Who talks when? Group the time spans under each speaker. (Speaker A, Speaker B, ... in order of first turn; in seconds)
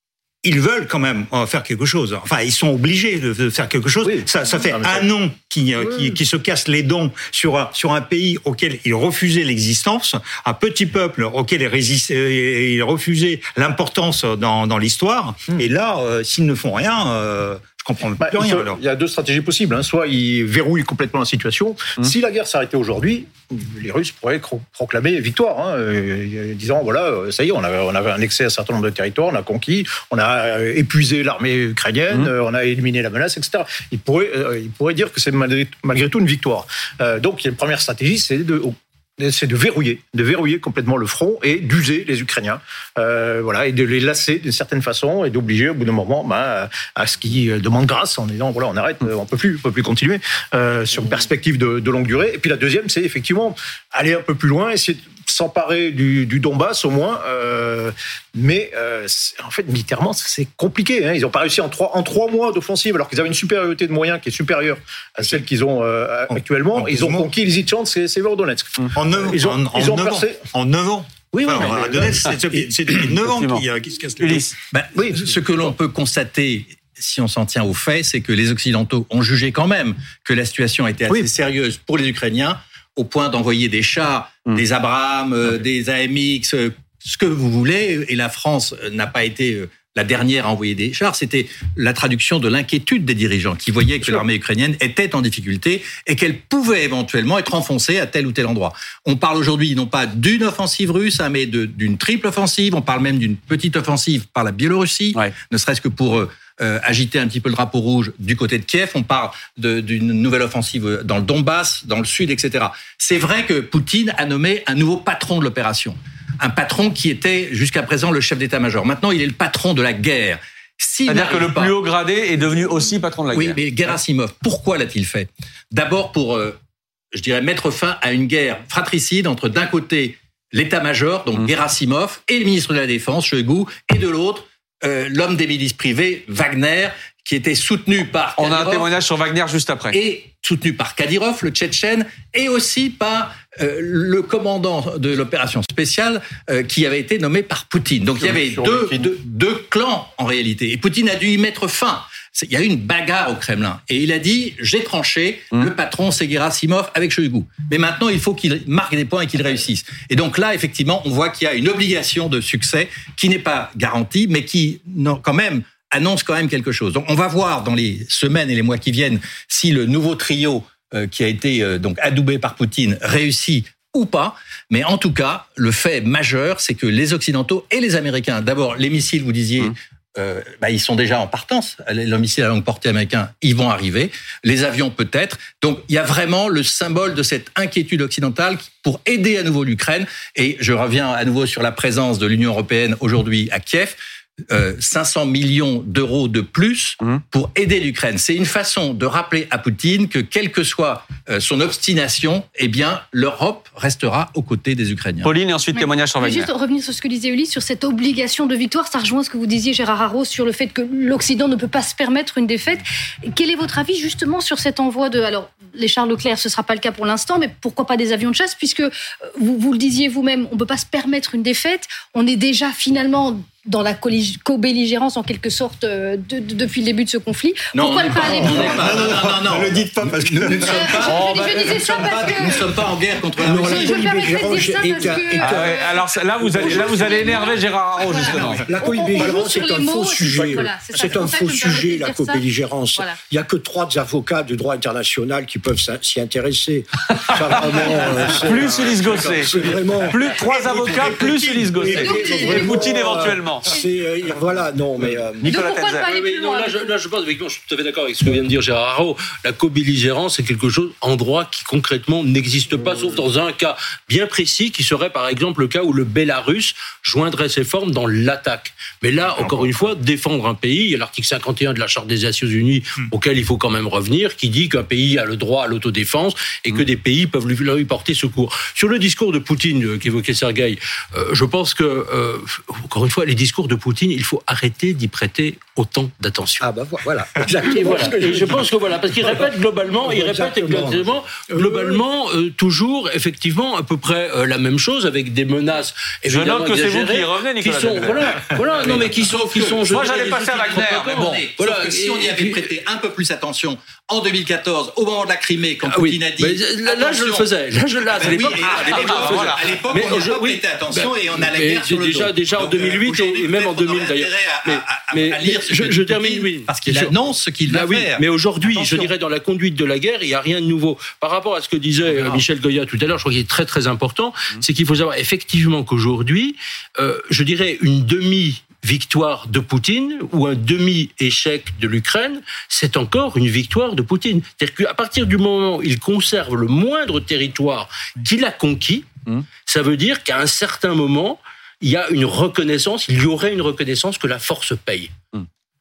Speaker A: 0.4-18.8, 66.3-67.3, 69.0-74.5, 228.3-231.1, 250.2-252.7
Speaker B: 4.0-5.1, 18.2-70.5, 71.5-71.9, 75.0-75.3, 148.2-149.2
Speaker C: 71.3-72.0, 72.9-73.7, 74.2-74.5, 121.1-123.6, 138.4-140.0, 205.2-206.5, 231.1-231.6, 235.4-238.7, 247.3-253.7, 255.4-256.1, 296.3-298.4, 299.9-301.4, 308.7-309.6
Speaker D: 74.7-121.7, 123.3-126.6, 127.1-138.9, 139.9-194.0, 194.5-205.3, 227.7-235.4, 298.8-307.5, 308.1-318.2
Speaker E: 205.8-229.0, 230.6-232.7, 233.4-242.4, 251.8-253.1, 255.4-256.9
Speaker F: 233.4-235.8, 236.5-236.9, 238.3-255.5, 286.6-292.0
Speaker G: 256.0-286.7, 287.7-302.7, 305.8-345.2